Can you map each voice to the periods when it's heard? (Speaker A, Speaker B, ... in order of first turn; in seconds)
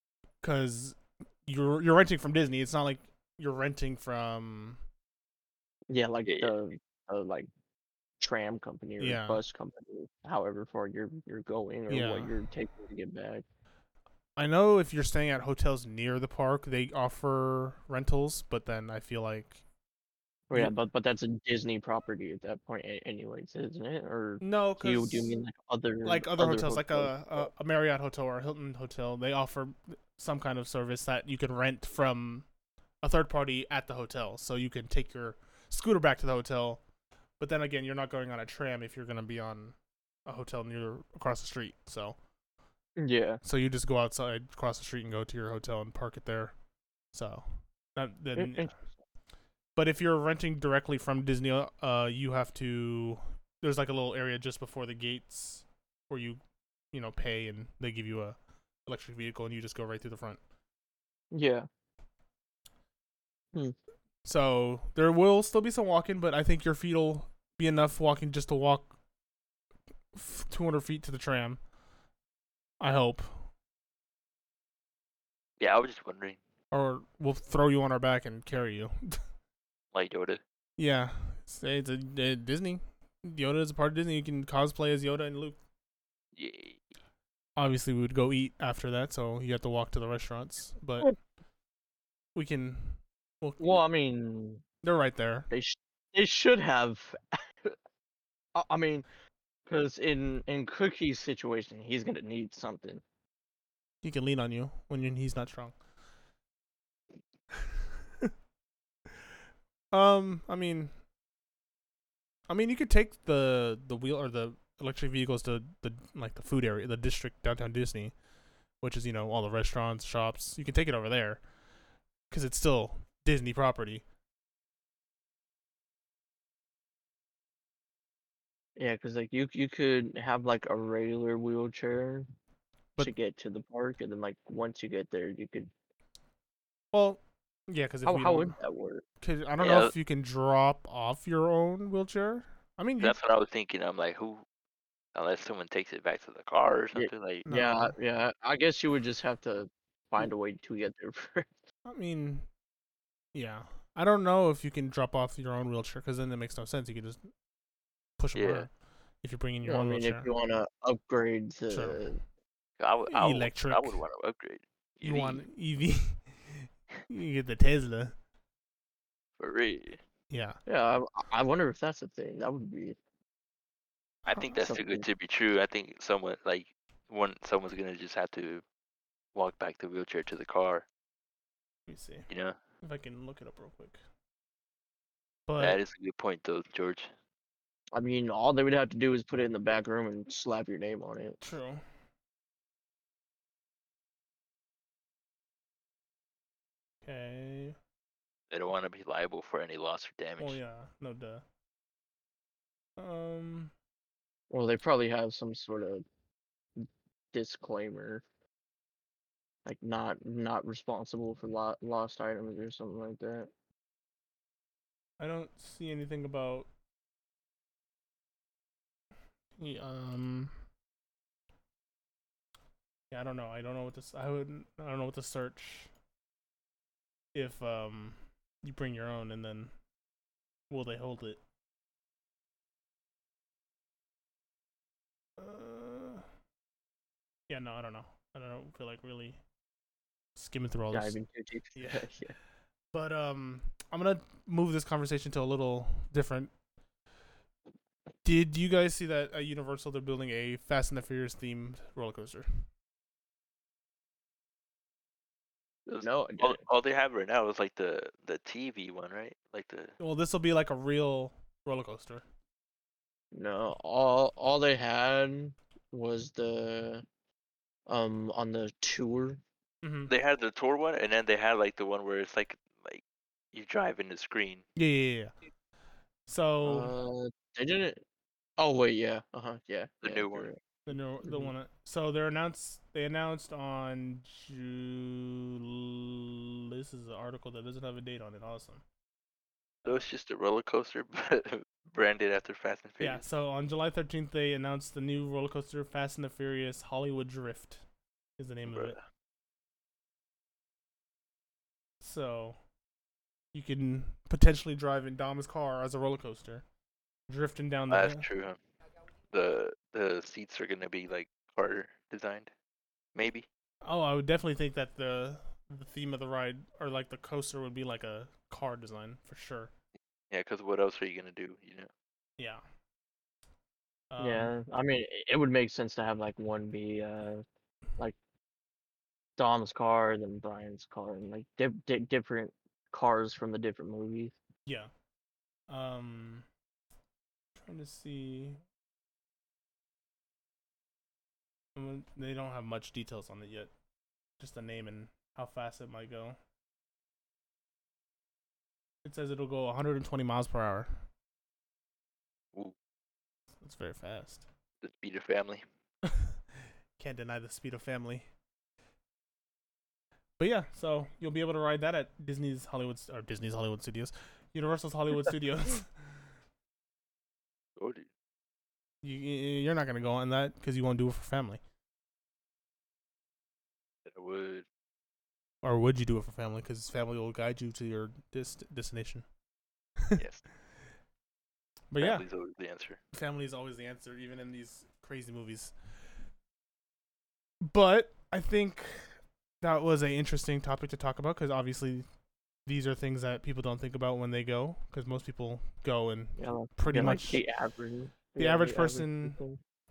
Speaker A: 0.4-4.8, 9.0-9.4, 11.9-12.3, 14.4-19.6, 24.4-25.4, 26.0-32.5, 33.0-36.8, 37.4-39.8, 40.3-42.2, 43.4-46.5, 47.1-48.7, 49.8-56.4, 56.9-60.4, 64.2-69.0, 70.1-71.6, 72.8-73.5, 76.7-79.2, 80.8-85.6, 87.6-91.1, 92.3-93.8, 94.8-95.5, 104.0-105.8, 109.9-110.9, 112.5-118.2, 118.8-121.5, 122.3-124.0, 136.9-138.6, 139.2-143.2, 147.5-147.9, 151.9-152.5, 153.3-157.3, 158.2-158.7, 159.2-160.3, 161.7-162.1, 163.1-164.0, 165.0-168.2, 170.3-170.6, 181.9-182.3, 182.8-184.0, 185.5-185.8, 191.4-191.8, 197.0-197.8, 200.4-201.4, 203.0-203.7, 215.2-216.7, 219.6-220.6, 223.1-225.9, 227.3-229.7, 230.7-231.4, 235.4-236.3, 237.5-239.4, 240.3-241.2, 241.8-242.1, 242.9-246.5, 248.2-252.7, 260.0-262.2, 269.8-270.1, 274.8-275.3, 276.3-276.9, 280.9-288.8, 293.0-297.8, 298.4-299.0, 302.0-302.6, 303.5-306.6, 307.3-308.2, 313.8-319.7, 324.1-324.5, 335.7-336.5, 337.6-338.6, 341.8-343.7, 344.4-346.4, 349.0-351.0, 353.6-354.4, 356.0-356.3, 357.0-358.3, 360.4-365.9, 369.0-371.6, 375.6-379.2, 381.9-382.2, 383.1-385.8, 387.6-392.1, 392.7-397.4, 398.4-399.4
Speaker B: 5.9-7.5, 8.2-13.4, 20.5-27.5, 43.0-43.4, 48.4-48.7, 61.3-61.7, 93.6-94.6, 95.5-97.8, 98.5-99.1, 99.7-103.0, 128.8-132.3, 133.0-135.7, 138.1-139.0, 146.9-151.5, 159.7-162.2, 170.7-173.0, 174.4-175.0, 187.9-191.4, 204.5-206.0, 206.8-208.2, 209.7-213.5, 240.9-242.3, 256.0-256.6, 263.3-267.1, 267.9-269.4, 276.6-278.0, 278.6-280.6, 281.2-281.5, 324.2-327.4, 329.4-334.4, 396.4-399.6
Speaker C: 6.3-6.5, 75.6-76.4, 79.9-80.4, 86.3-86.9, 139.6-139.9, 143.0-144.4, 145.2-147.5, 158.3-158.7, 162.8-165.4, 169.4-170.0, 174.2-178.6, 179.3-180.8, 182.3-182.6, 185.6-187.1, 198.5-200.6, 255.9-259.9, 270.1-273.0, 273.5-274.6, 280.0-280.5, 289.9-293.2, 298.7-299.0, 307.9-308.6, 309.3-312.5, 313.1-313.5, 320.3-321.9, 354.8-355.6, 367.8-368.1, 374.1-374.7, 380.2-380.4, 382.0-383.0